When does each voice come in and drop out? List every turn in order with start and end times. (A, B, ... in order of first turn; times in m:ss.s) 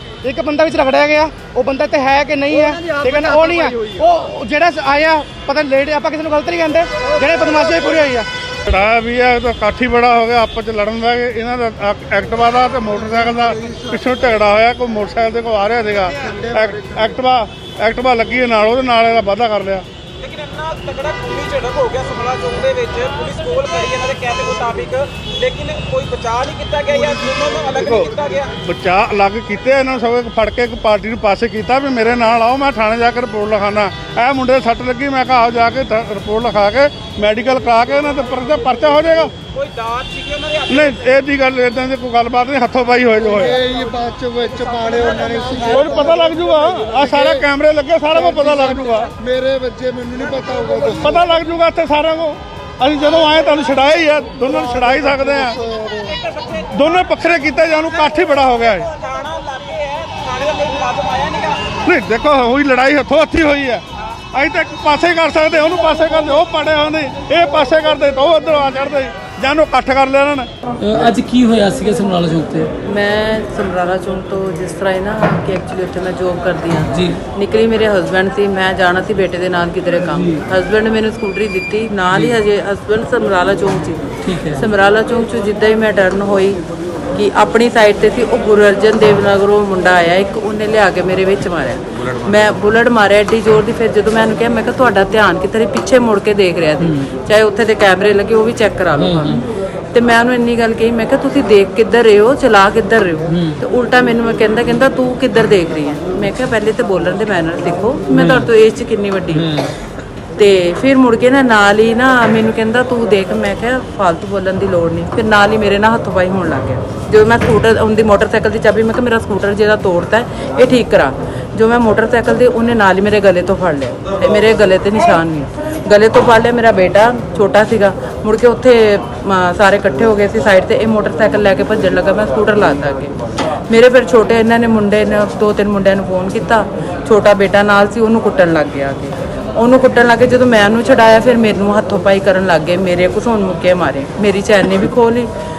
0:00.2-0:08.3 A
0:08.7-0:19.8 B
0:13.0-0:14.0 C
0:16.1-0:17.2 C
0:20.2-0:28.5 D
0:27.7-0:39.3 B
0:39.5-0:40.7 D
0:40.7-0:43.6 B
0:43.2-0:46.3 C
0:45.6-0:49.1 B
0:47.0-0:47.4 C
0:48.1-0:51.2 C
0:50.9-0:55.5 B
0:54.4-0:56.2 C
0:56.3-0:56.6 D
0:56.7-0:58.9 B
0:58.9-1:01.7 D
1:01.8-1:03.8 B
1:04.3-1:10.5 B
1:10.8-1:12.7 E
1:12.8-1:26.6 F
1:16.8-1:17.2 E
1:20.1-1:20.4 E
1:24.2-1:24.6 E
1:27.1-1:49.5 F
1:39.0-1:39.4 E
1:43.3-1:43.5 E
1:48.1-1:48.4 E
1:49.3-1:49.7 E
1:50.4-2:13.1 F
2:13.7-2:25.3 F